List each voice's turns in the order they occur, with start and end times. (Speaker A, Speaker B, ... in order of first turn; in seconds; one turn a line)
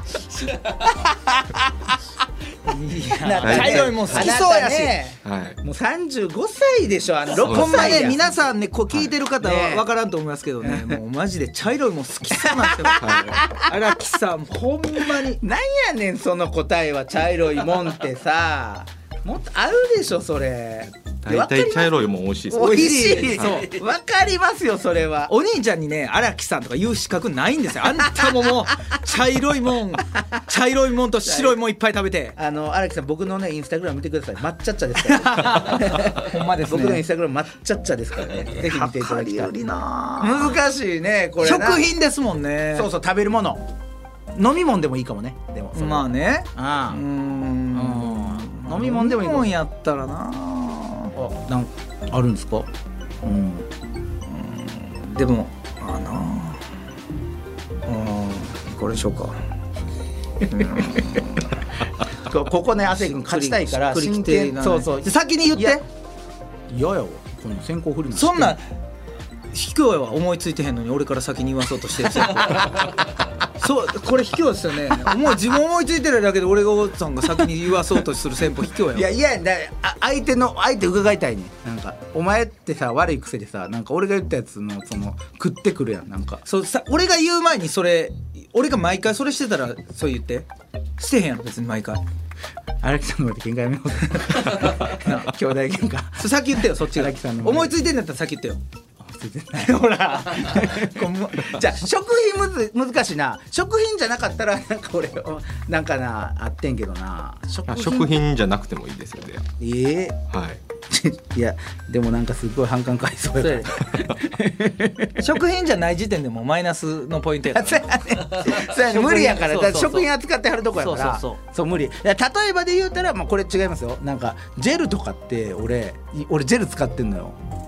Speaker A: 0.8-1.9
Speaker B: 2.6-5.0
Speaker A: 3.1-8.2
Speaker C: 3.4-4.4
Speaker C: 5.2-5.6
Speaker B: 7.3-15.4
Speaker C: 7.4-8.3
Speaker A: 9.3-9.9
Speaker A: 10.6-11.0
Speaker A: 12.3-13.7
Speaker C: 13.0-13.3
Speaker A: 15.0-25.3
Speaker C: 21.2-23.6
Speaker B: 22.5-23.8
Speaker B: 25.3-32.3
Speaker A: 31.2-31.6
Speaker A: 32.4-39.5
Speaker B: 35.0-37.0
Speaker B: 38.5-40.6
Speaker A: 40.2-41.9
Speaker B: 41.4-42.9
Speaker A: 42.7-43.6
Speaker A: 44.3-47.0
Speaker B: 45.7-51.1
Speaker A: 47.7-49.5
Speaker A: 51.1-52.7
Speaker A: 53.2-53.7
Speaker B: 54.2-56.6
Speaker B: 57.9-59.4
Speaker B: 60.5-61.4
Speaker A: 62.2-65.8
Speaker B: 62.9-65.8
Speaker A: 66.7-68.6
Speaker B: 68.1-68.6
Speaker B: 69.5-72.9
Speaker B: 73.5-79.1
Speaker A: 78.9-86.4
Speaker B: 86.5-90.5
Speaker B: 91.0-92.0
Speaker A: 92.8-97.7
Speaker B: 94.1-95.3
Speaker B: 96.2-98.6
Speaker A: 99.0-108.2
Speaker B: 99.5-101.6
Speaker C: 107.7-109.5
Speaker A: 109.6-110.2
Speaker C: 110.3-110.6
Speaker A: 110.9-115.3
Speaker B: 113.4-113.7
Speaker B: 115.2-120.1
Speaker A: 117.5-127.4
Speaker B: 120.8-121.4